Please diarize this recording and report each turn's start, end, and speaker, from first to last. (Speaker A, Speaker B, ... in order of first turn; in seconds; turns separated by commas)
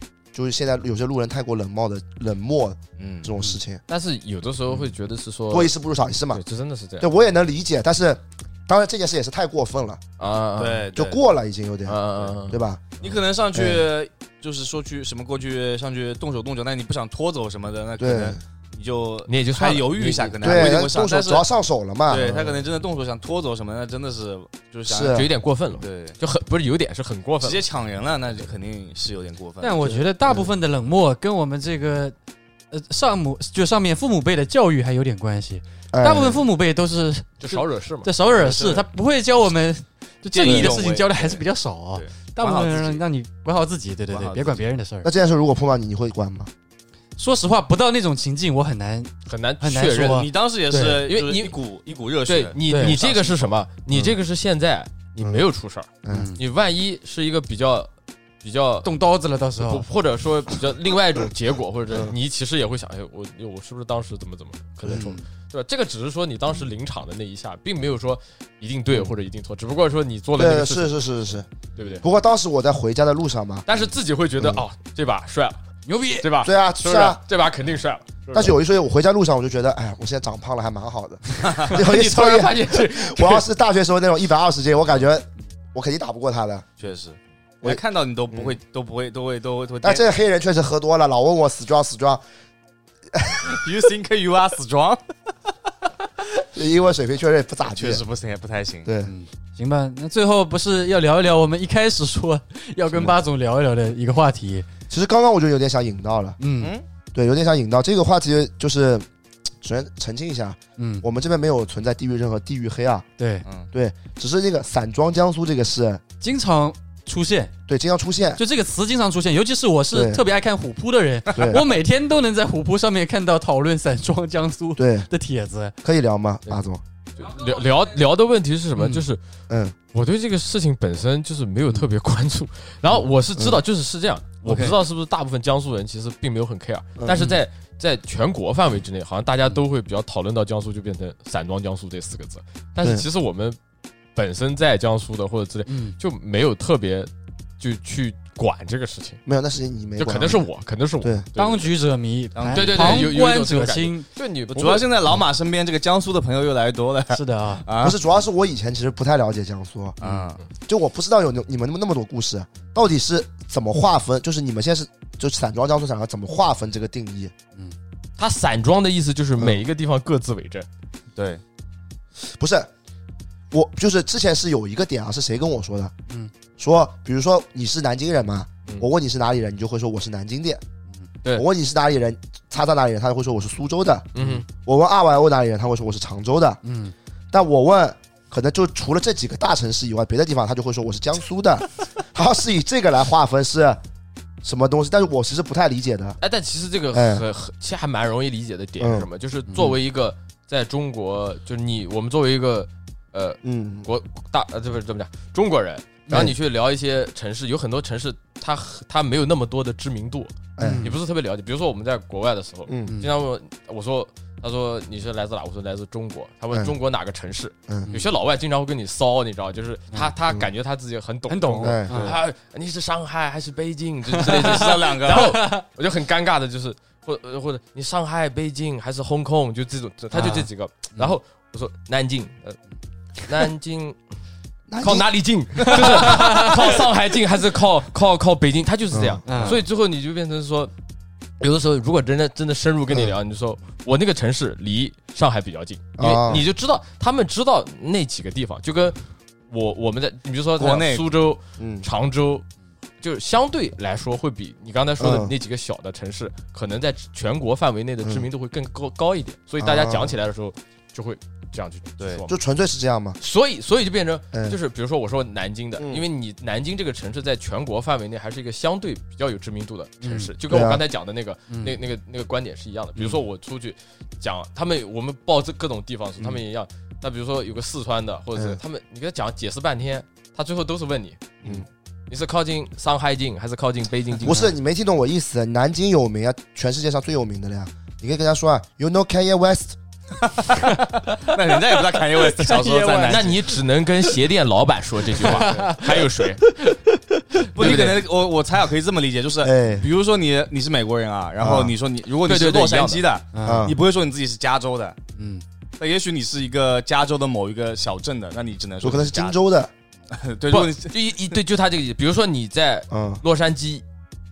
Speaker A: 0.3-3.8, Speaker B: 3.0-3.3, Speaker C: 3.9-5.7, Speaker A: 5.5-6.4, Speaker C: 6.3-7.1, Speaker A: 7.0-10.0, Speaker C: 10.2-10.9, Speaker B: 10.6-11.2, Speaker A: 10.9-12.8, Speaker C: 11.8-13.2, Speaker B: 13.0-21.4, Speaker A: 13.5-13.9, Speaker A: 18.0-18.4, Speaker C: 19.3-20.8, Speaker A: 20.4-22.4, Speaker B: 22.1-26.2, Speaker A: 24.9-25.3, Speaker C: 25.0-27.6, Speaker B: 27.4-30.0, Speaker D: 29.6-32.1, Speaker A: 30.2-30.5, Speaker D: 32.7-45.1, Speaker A: 35.9-36.5, Speaker C: 37.4-38.1, Speaker B: 38.3-38.9, Speaker B: 40.3-43.0, Speaker B: 44.1-44.6, Speaker A: 45.0-46.5, Speaker D: 47.2-51.0, Speaker C: 49.2-50.2, Speaker B: 50.0-53.4, Speaker C: 51.0-51.6, Speaker C: 52.3-57.9, Speaker D: 52.7-53.0, Speaker A: 56.0-56.3, Speaker D: 56.1-56.4, Speaker C: 58.4-58.9, Speaker D: 58.8-59.8, Speaker C: 59.6-71.0, Speaker A: 61.9-62.2, Speaker A: 64.8-65.1, Speaker D: 64.9-65.2, Speaker A: 70.3-71.5, Speaker C: 71.8-72.0, Speaker A: 72.0-73.7, Speaker C: 73.7-75.6, Speaker D: 75.8-76.2, Speaker C: 76.2-78.6, Speaker A: 76.4-77.2, Speaker A: 78.3-86.6, Speaker B: 81.4-81.7, Speaker C: 81.7-83.5, Speaker B: 86.8-90.0, Speaker A: 87.6-88.6, Speaker A: 89.8-92.2, Speaker A: 93.1-93.6, Speaker B: 93.5-95.0, Speaker A: 96.5-98.0, Speaker B: 97.7-98.9, Speaker A: 98.8-99.1, Speaker D: 99.0-104.7, Speaker A: 104.9-106.4, Speaker D: 106.4-106.7, Speaker B: 106.6-106.8, Speaker A: 107.1-109.0, Speaker A: 109.6-113.0, Speaker D: 110.8-111.0, Speaker D: 113.2-113.5, Speaker A: 113.7-116.0, Speaker D: 116.2-117.5, Speaker A: 117.7-118.4, Speaker D: 118.3-125.7, Speaker A: 119.9-120.2, Speaker A: 121.3-121.7, Speaker A: 124.8-125.1, Speaker A: 125.8-126.8, Speaker C: 127.2-129.2, Speaker A: 129.5-129.8, Speaker C: 129.9-143.6, Speaker D: 134.4-134.7, Speaker A: 137.0-137.3, Speaker A: 142.8-143.1, Speaker C: 144.2-149.2, Speaker D: 145.7-145.9, Speaker A: 149.2-150.4, Speaker C: 150.0-151.7, Speaker D: 151.3-154.1, Speaker B: 152.3-153.1, Speaker C: 152.5-154.9, Speaker B: 154.5-158.0, Speaker D: 157.1-157.6, Speaker A: 157.8-160.0, Speaker B: 160.0-160.4, Speaker A: 160.7-167.3, Speaker C: 168.2-170.7, Speaker B: 171.1-171.4, Speaker A: 172.2-172.7, Speaker A: 173.5-175.9, Speaker A: 176.6-180.6, Speaker A: 181.3-186.6, Speaker C: 184.1-184.4, Speaker D: 186.6-186.9, Speaker A: 187.3-193.8, Speaker A: 194.4-196.2, Speaker C: 196.2-232.6, Speaker A: 196.9-197.2, Speaker A: 198.8-199.7, Speaker A: 203.4-203.9, Speaker A: 206.1-206.3, Speaker A: 210.6-210.9, Speaker D: 210.6-210.9, Speaker A: 212.7-213.0, Speaker D: 221.3-222.2, Speaker A: 221.6-222.2, Speaker D: 224.1-225.6, Speaker B: 224.2-225.3, Speaker D: 230.1-231.2, Speaker C: 233.2-234.0, Speaker A: 234.7-236.2, Speaker C: 234.8-240.7, Speaker D: 235.9-236.5, Speaker A: 238.9-239.6, Speaker D: 239.2-239.6, Speaker C: 241.4-249.0, Speaker A: 246.0-246.4, Speaker C: 249.5-252.4, Speaker B: 250.6-251.0, Speaker A: 251.6-251.9, Speaker C: 253.0-262.4, Speaker A: 255.0-255.3, Speaker A: 259.6-260.1, Speaker A: 262.2-263.2, Speaker C: 263.2-281.2, Speaker A: 264.3-264.6, Speaker A: 265.8-266.0, Speaker D: 270.0-270.3, Speaker A: 270.5-270.8, Speaker C: 282.1-284.4, Speaker A: 284.2-289.8, Speaker D: 284.3-284.5, Speaker B: 290.8-293.4, Speaker D: 291.9-293.3, Speaker C: 293.0-296.5, Speaker D: 295.2-296.8, Speaker B: 297.5-305.0, Speaker C: 297.6-298.0, Speaker A: 299.4-299.9, Speaker A: 301.4-301.7, Speaker C: 302.2-303.0, Speaker D: 303.3-303.7, Speaker A: 303.4-303.8, Speaker D: 305.1-305.4, Speaker B: 305.8-309.4, Speaker A: 308.8-309.7, Speaker B: 310.1-310.9, Speaker C: 310.5-313.8, Speaker A: 312.9-313.2